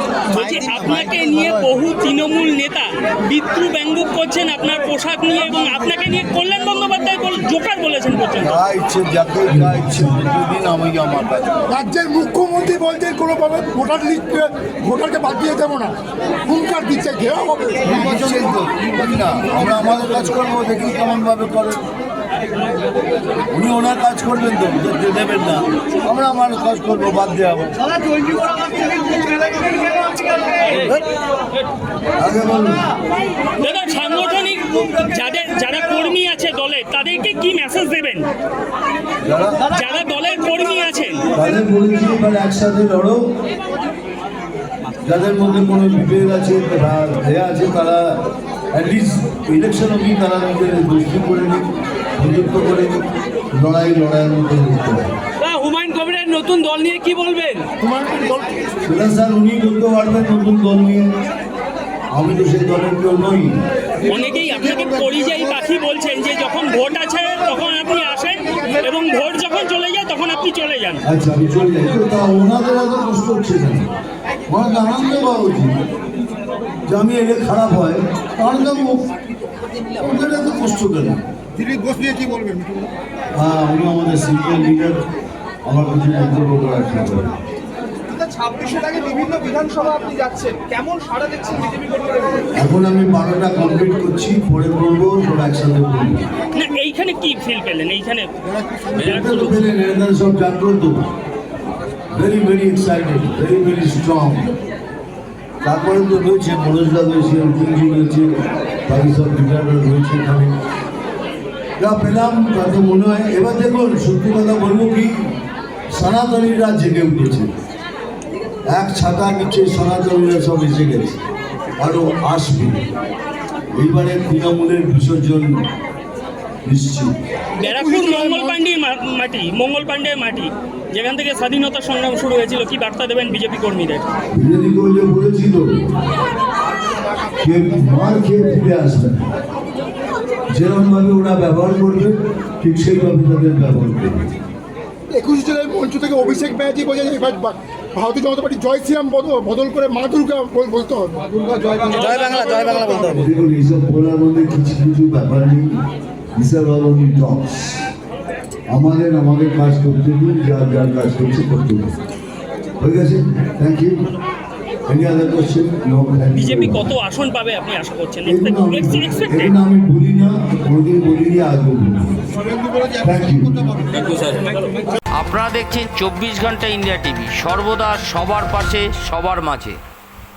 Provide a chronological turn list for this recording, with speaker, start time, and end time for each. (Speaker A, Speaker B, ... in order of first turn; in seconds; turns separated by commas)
Speaker A: 0.3-8.6, Speaker B: 8.4-11.5, Speaker C: 11.7-17.9, Speaker B: 17.8-21.8, Speaker B: 23.5-27.9, Speaker B: 32.2-32.9, Speaker A: 33.6-38.3, Speaker B: 39.2-39.6, Speaker A: 39.7-41.3, Speaker B: 41.3-43.2, Speaker B: 45.0-48.1, Speaker B: 48.7-51.7, Speaker B: 52.2-55.1, Speaker A: 55.4-57.7, Speaker C: 57.9-58.4, Speaker B: 58.9-61.1, Speaker B: 62.1-63.6, Speaker A: 64.1-71.0, Speaker B: 71.0-73.9, Speaker B: 74.5-75.8, Speaker B: 76.9-79.1, Speaker B: 79.9-81.2, Speaker C: 81.7-82.9, Speaker B: 83.3-85.0, Speaker B: 85.7-87.5, Speaker D: 88.1-92.3, Speaker B: 92.5-96.3, Speaker A: 96.5-98.4, Speaker A: 98.9-99.6, Speaker B: 99.0-101.0, Speaker B: 102.1-104.5, Speaker B: 105.6-108.4, Speaker B: 108.9-110.6, Speaker B: 111.8-115.3, Speaker B: 115.9-117.5, Speaker B: 118.7-121.2, Speaker B: 121.8-122.8, Speaker B: 123.7-125.6, Speaker B: 126.7-127.1, Speaker A: 127.6-134.1, Speaker C: 128.0-128.5, Speaker B: 134.3-135.9, Speaker B: 137.4-139.3, Speaker B: 140.5-144.3, Speaker C: 145.1-153.2, Speaker B: 153.1-155.7, Speaker B: 156.4-157.8, Speaker B: 158.7-162.0, Speaker B: 162.8-164.1, Speaker B: 164.9-166.9, Speaker A: 166.4-169.5, Speaker B: 168.2-172.3, Speaker B: 173.0-173.9, Speaker E: 173.9-174.5, Speaker E: 175.1-179.8